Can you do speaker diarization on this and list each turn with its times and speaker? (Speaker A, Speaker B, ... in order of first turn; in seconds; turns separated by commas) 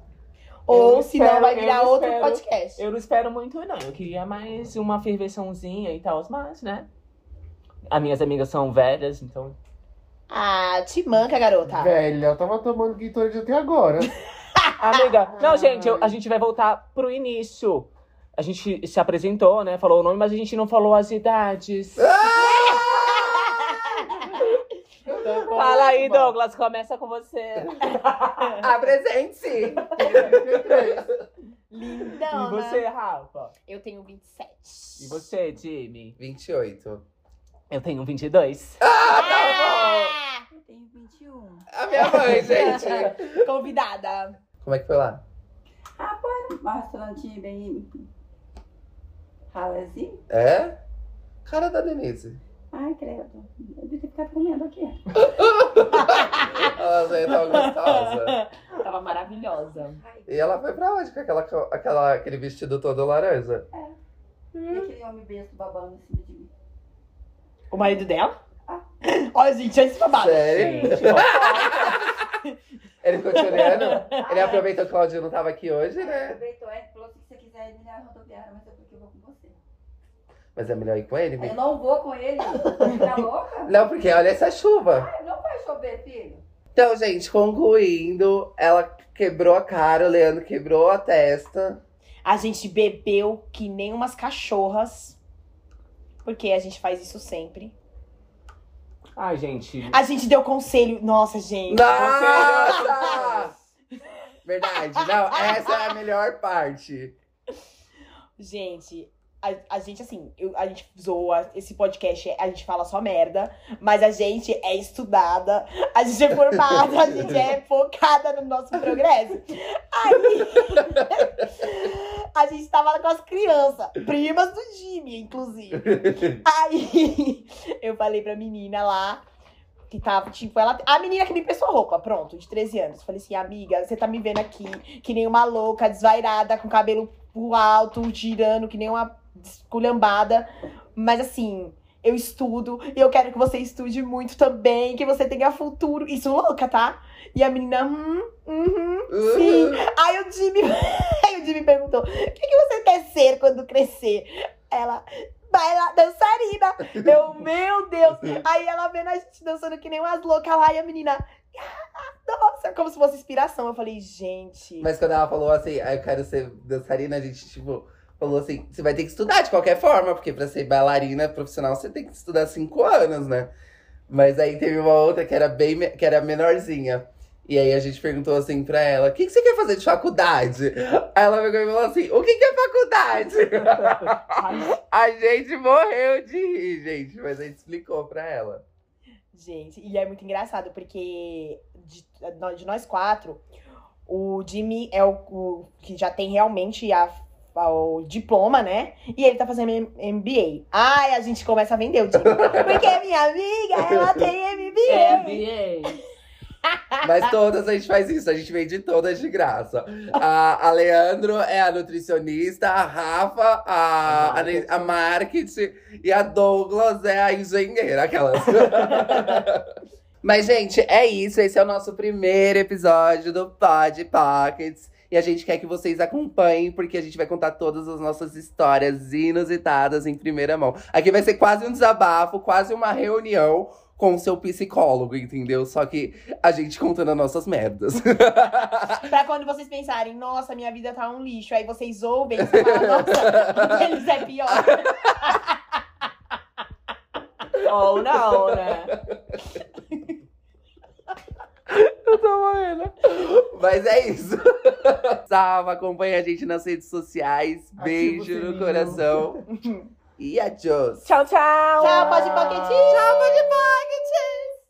Speaker A: 0.7-2.8, Speaker B: 0.7-6.9, Speaker B: 7.9-9.6, Speaker A: 10.3-11.9, Speaker C: 11.7-14.1, Speaker B: 14.8-22.1, Speaker C: 15.4-16.1, Speaker D: 22.0-23.7, Speaker A: 22.5-24.4, Speaker C: 25.1-26.3, Speaker D: 25.2-25.8, Speaker B: 25.5-28.6, Speaker D: 28.6-31.0, Speaker C: 29.9-31.1, Speaker A: 31.7-32.9, Speaker B: 32.3-33.5, Speaker A: 33.6-35.1, Speaker B: 35.0-36.1, Speaker D: 36.2-37.0, Speaker B: 37.7-38.8, Speaker D: 38.8-40.1, Speaker A: 39.1-40.4, Speaker E: 40.5-42.3, Speaker D: 41.7-43.3, Speaker A: 41.9-44.4, Speaker D: 44.6-45.2, Speaker E: 46.0-48.0, Speaker E: 49.5-50.2, Speaker D: 50.3-50.8, Speaker D: 51.5-52.4, Speaker E: 52.7-55.0, Speaker D: 55.2-58.4, Speaker A: 55.9-56.7, Speaker A: 57.3-60.0, Speaker E: 60.0-60.3, Speaker D: 60.3-63.6, Speaker D: 64.5-64.9, Speaker E: 64.6-66.5, Speaker A: 67.7-68.3, Speaker A: 69.0-71.2, Speaker D: 70.1-71.9, Speaker B: 70.5-72.0, Speaker A: 71.7-72.5, Speaker D: 73.0-76.4, Speaker A: 73.3-74.6, Speaker E: 74.2-74.8, Speaker E: 75.9-79.5, Speaker D: 80.5-81.6, Speaker E: 81.4-83.8, Speaker A: 82.8-83.3, Speaker D: 83.6-85.1, Speaker E: 84.9-86.4, Speaker D: 86.7-91.8, Speaker A: 92.2-95.2, Speaker A: 96.2-97.7, Speaker B: 99.2-100.0, Speaker A: 99.9-103.4, Speaker D: 101.7-103.5, Speaker B: 101.9-103.2, Speaker D: 104.5-107.1, Speaker A: 104.8-105.9, Speaker A: 108.4-129.2, Speaker D: 126.0-126.2, Speaker A: 129.9-164.9, Speaker D: 149.1-149.8, Speaker D: 164.8-173.5, Speaker D: 174.1-188.6, Speaker B: 183.7-184.1, Speaker A: 184.3-184.8, Speaker A: 189.3-193.4, Speaker A: 194.1-205.4, Speaker D: 202.2-202.9, Speaker B: 204.8-206.0, Speaker D: 207.0-219.7, Speaker B: 214.0-214.9, Speaker D: 220.2-239.0, Speaker A: 239.0-245.6, Speaker D: 242.4-243.8, Speaker D: 244.5-245.4, Speaker B: 247.6-248.9, Speaker D: 248.6-249.2, Speaker D: 251.7-259.4, Speaker B: 257.8-259.3, Speaker A: 259.5-259.9, Speaker D: 260.2-261.1, Speaker B: 261.0-263.4, Speaker A: 261.8-263.1, Speaker D: 262.9-264.5